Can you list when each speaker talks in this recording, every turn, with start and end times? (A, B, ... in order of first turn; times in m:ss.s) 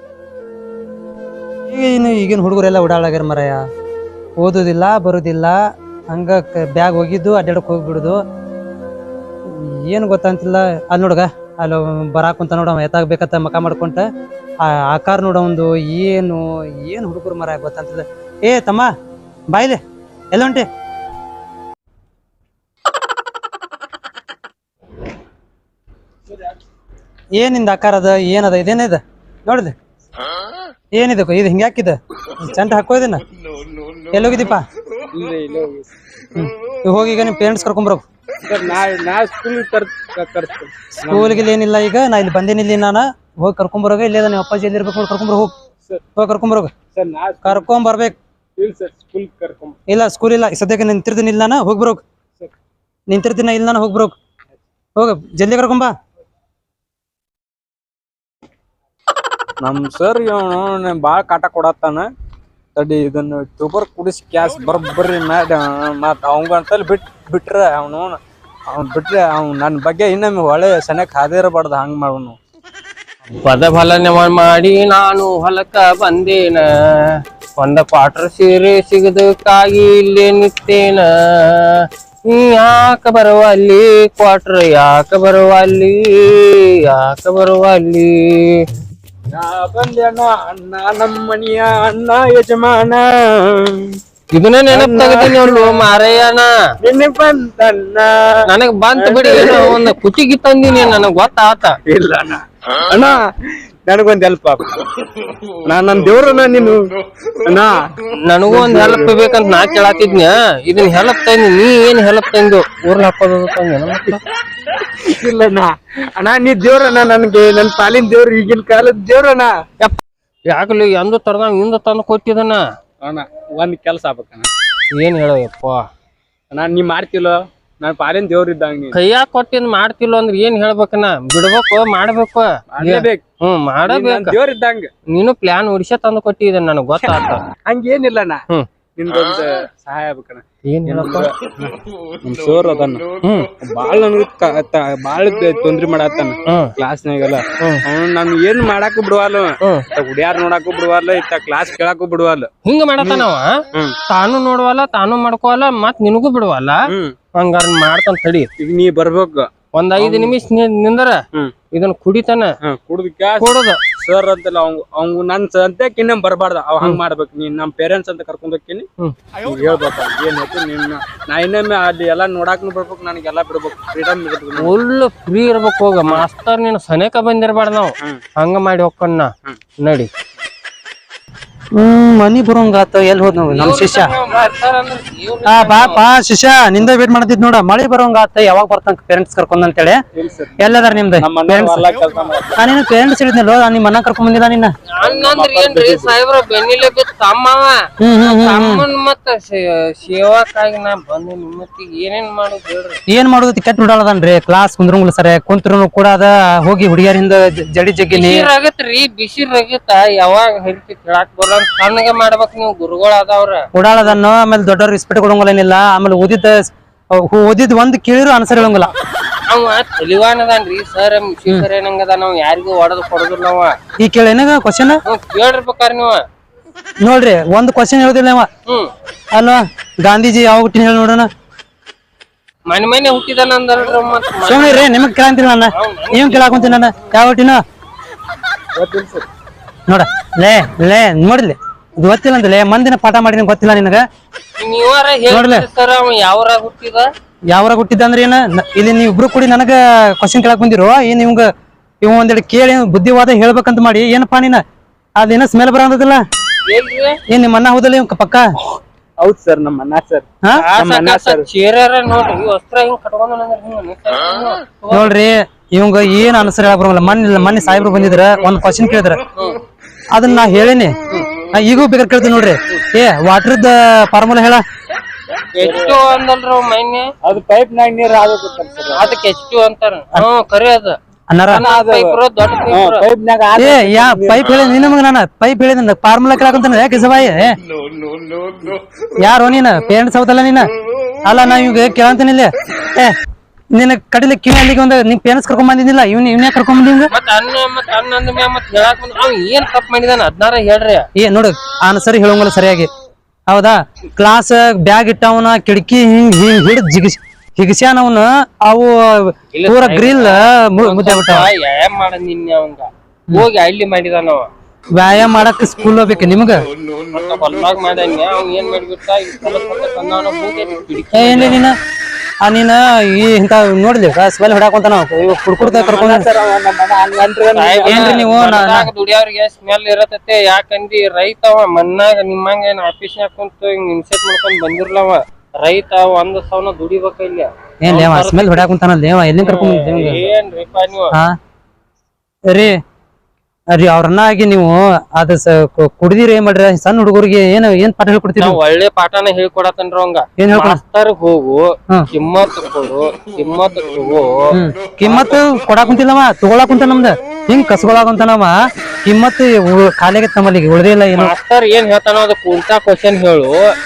0:01.7-0:03.6 A
0:04.4-0:05.5 A
0:06.1-0:08.2 A
0:09.5-0:14.0 A
0:14.6-0:18.9 A
0:19.5-0:19.8 A
0:20.3-0:20.6 A
0:27.4-0:29.7 A
0:30.9-0:33.2 A
0:34.1-0:34.6 A
0:35.1-0:35.9 B
0:36.3-0:38.0 A
0:38.4-0:41.5 B
0:41.1-0:45.5 A
0:46.2-0:46.7 A
0:46.9-0:47.7 B
0:47.4-0:48.1 A
0:48.6-0:49.7 B
0:49.9-0:52.0 A
0:53.1-0:54.1 A
0:55.0-0:55.9 A
0:59.6-1:02.1 B
1:02.8-1:08.2 B
1:08.7-1:12.4 B
1:13.3-1:28.6 C
1:29.3-1:34.0 B
1:34.3-1:36.5 C
1:34.7-1:35.9 B
1:36.8-1:39.9 B
1:38.5-1:41.8 C
1:41.9-1:43.2 B
1:43.9-1:44.8 B
1:45.6-1:46.9 B
1:47.4-1:47.8 B
1:48.2-1:54.2 C
1:48.5-1:49.2 B
1:55.0-1:59.5 B
1:59.8-2:02.6 C
2:03.0-2:04.5 B
2:04.9-2:05.8 C
2:06.5-2:09.0 B
2:08.9-2:14.4 C
2:12.7-2:13.2 B
2:13.8-2:14.9 B
2:15.1-2:17.4 C
2:17.6-2:18.4 B
2:19.0-2:23.0 B
2:20.6-2:21.3 C
2:23.2-2:23.5 C
2:23.5-2:32.5 B
2:26.5-2:26.7 C
2:32.6-2:33.5 C
2:33.0-2:34.0 B
2:34.1-2:36.8 C
2:36.9-2:37.1 B
2:37.3-2:38.5 C
2:38.6-2:40.3 B
2:39.7-2:41.2 C
2:41.7-2:42.5 C
2:42.6-2:48.9 B
2:43.4-2:43.8 C
2:49.4-2:54.7 B
2:54.5-3:00.1 C
3:01.8-3:04.1 A
3:03.5-3:06.0 C
3:05.5-3:10.0 A
3:10.1-3:10.6 B
3:10.6-3:11.8 A
3:11.2-3:12.7 B
3:12.6-3:14.7 A
3:15.0-3:23.0 C
3:15.0-3:16.1 B
3:18.0-3:18.8 A
3:23.1-3:28.5 A
3:28.1-3:34.2 C
3:33.8-3:36.5 A
3:37.1-3:38.9 A
3:39.5-3:43.7 C
3:44.0-3:45.0 A
3:45.0-3:46.2 C
3:47.0-3:48.5 A
3:49.3-3:51.3 A
3:52.7-3:54.9 C
3:54.4-3:57.6 A
3:55.7-3:56.9 C
3:58.8-3:59.2 B
3:59.9-4:04.0 A
4:04.6-4:07.1 C
4:05.3-4:05.6 A
4:07.5-4:11.4 A
4:12.0-4:14.6 A
4:15.2-4:16.2 A
4:16.6-4:17.2 C
4:17.3-4:18.4 A
4:19.2-4:21.5 B
4:20.5-4:25.1 C
4:24.9-4:29.2 A
4:29.4-4:29.6 C
4:30.1-4:30.9 A
4:31.5-4:34.6 A
4:35.5-4:37.1 C
4:35.6-4:36.0 B
4:37.2-4:39.1 B
4:38.9-4:41.0 C
4:41.3-4:41.6 A
4:41.5-4:44.4 B
4:41.5-4:43.0 C
4:43.5-4:47.5 A
4:49.2-4:50.7 A
4:51.2-4:53.1 A
4:53.7-4:57.1 A
4:57.1-5:01.0 C
5:01.2-5:02.9 A
5:03.5-5:11.5 A
5:09.5-5:14.5 C
5:15.0-5:16.6 A
5:17.1-5:21.6 C
5:21.1-5:21.7 A
5:22.4-5:26.3 A
5:25.6-5:28.2 B
5:27.5-5:38.7 C
5:27.9-5:28.9 A
5:37.8-5:40.2 A
5:39.4-5:41.2 C
5:42.5-5:42.8 A
5:43.7-5:48.6 A
5:48.4-5:55.4 C
5:50.4-5:50.8 A
5:54.5-5:58.5 A
5:59.0-6:01.3 A
6:01.1-6:03.6 C